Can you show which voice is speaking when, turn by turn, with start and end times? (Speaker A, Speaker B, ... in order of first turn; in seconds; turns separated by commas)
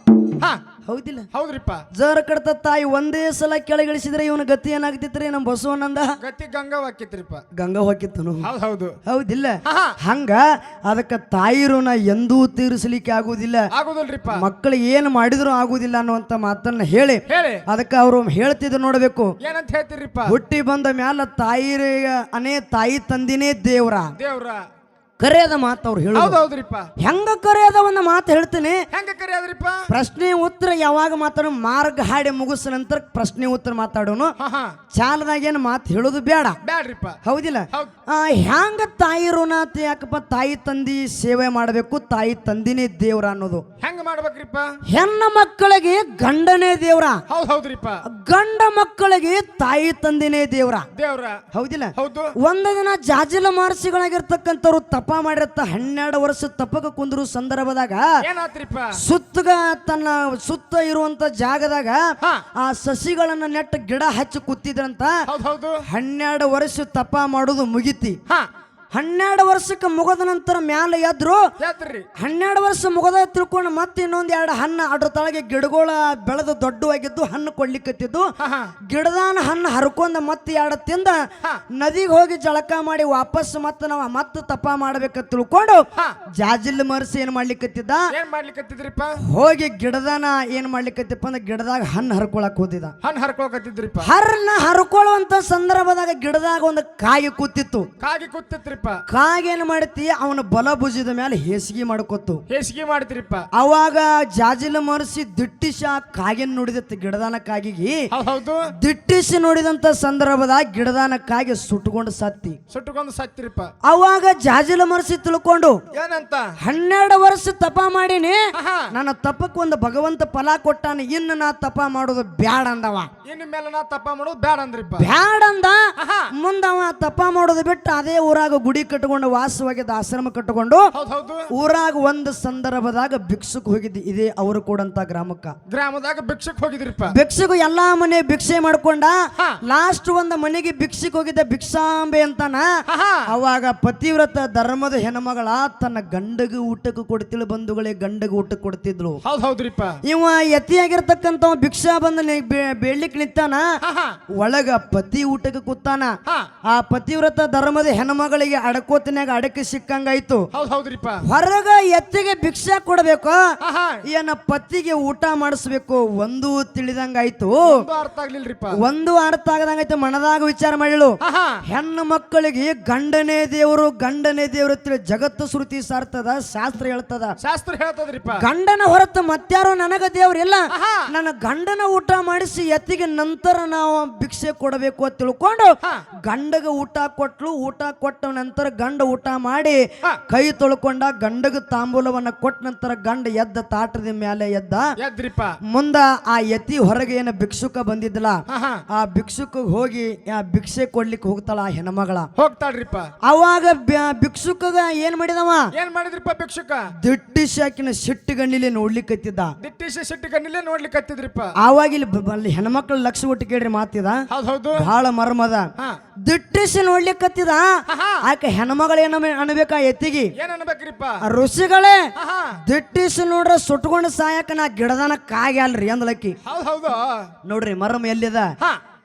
Speaker A: 0.8-1.3, Speaker B: 1.3-1.9, Speaker A: 1.9-6.2, Speaker B: 6.2-7.5, Speaker A: 7.5-8.5, Speaker B: 8.4-9.0, Speaker A: 9.1-13.7, Speaker B: 9.6-9.9, Speaker B: 13.7-14.4, Speaker A: 14.3-19.3, Speaker B: 17.3-17.6, Speaker B: 19.4-20.4, Speaker A: 20.3-24.1, Speaker B: 24.2-24.6, Speaker A: 25.2-26.4, Speaker B: 26.1-26.9, Speaker A: 27.0-28.8, Speaker B: 28.9-29.9, Speaker A: 29.9-34.3, Speaker B: 34.4-34.8, Speaker A: 34.9-36.6, Speaker B: 36.6-37.2, Speaker A: 37.2-43.6, Speaker B: 43.8-44.8, Speaker A: 44.9-47.2, Speaker B: 47.3-48.0, Speaker A: 48.0-50.9, Speaker B: 50.9-51.4, Speaker A: 51.5-58.1, Speaker B: 52.0-52.3, Speaker B: 58.2-59.0, Speaker A: 59.0-65.1, Speaker B: 65.3-65.8, Speaker A: 65.8-68.2, Speaker A: 68.9-71.4, Speaker B: 71.6-72.1, Speaker A: 72.2-78.3, Speaker B: 78.4-78.7, Speaker A: 78.9-81.2, Speaker A: 81.7-88.1, Speaker B: 88.1-89.2, Speaker A: 89.2-92.9, Speaker B: 93.0-94.1, Speaker A: 94.0-97.9, Speaker B: 98.0-99.0, Speaker A: 99.1-102.4, Speaker B: 102.5-103.5, Speaker A: 103.5-108.0, Speaker B: 108.1-108.7, Speaker A: 108.8-112.6, Speaker B: 112.7-113.7, Speaker A: 113.8-115.8, Speaker B: 115.9-116.5, Speaker A: 116.6-118.4, Speaker B: 118.5-118.9, Speaker A: 118.9-123.1, Speaker B: 123.2-125.1, Speaker A: 125.0-130.9, Speaker B: 126.0-126.3, Speaker B: 130.9-131.5, Speaker A: 131.5-135.6, Speaker B: 135.7-137.1, Speaker A: 137.1-139.1, Speaker A: 139.7-142.7, Speaker B: 142.9-143.2, Speaker A: 143.3-149.2, Speaker B: 149.2-150.0, Speaker A: 150.0-153.7, Speaker B: 153.8-154.2, Speaker A: 154.3-156.1, Speaker A: 156.7-160.5, Speaker B: 160.5-161.2, Speaker A: 161.2-163.4, Speaker B: 163.6-164.0, Speaker A: 164.1-167.8, Speaker B: 167.6-168.8, Speaker A: 168.7-177.3, Speaker B: 171.2-171.6, Speaker B: 177.4-178.4, Speaker A: 178.4-194.9, Speaker B: 180.7-181.1, Speaker B: 195.0-195.6, Speaker A: 195.7-198.4, Speaker B: 198.5-198.8, Speaker A: 198.9-202.3, Speaker B: 202.3-203.1, Speaker A: 203.2-205.7, Speaker B: 205.7-206.9, Speaker A: 207.0-209.5, Speaker B: 209.6-211.5, Speaker A: 211.6-214.2, Speaker B: 214.3-214.9, Speaker A: 214.8-215.7, Speaker A: 216.2-217.7, Speaker B: 217.9-218.2, Speaker A: 218.2-220.3, Speaker B: 220.4-221.2, Speaker A: 221.2-222.1, Speaker B: 222.2-222.6, Speaker A: 222.6-226.4, Speaker B: 226.4-227.3, Speaker A: 227.4-228.5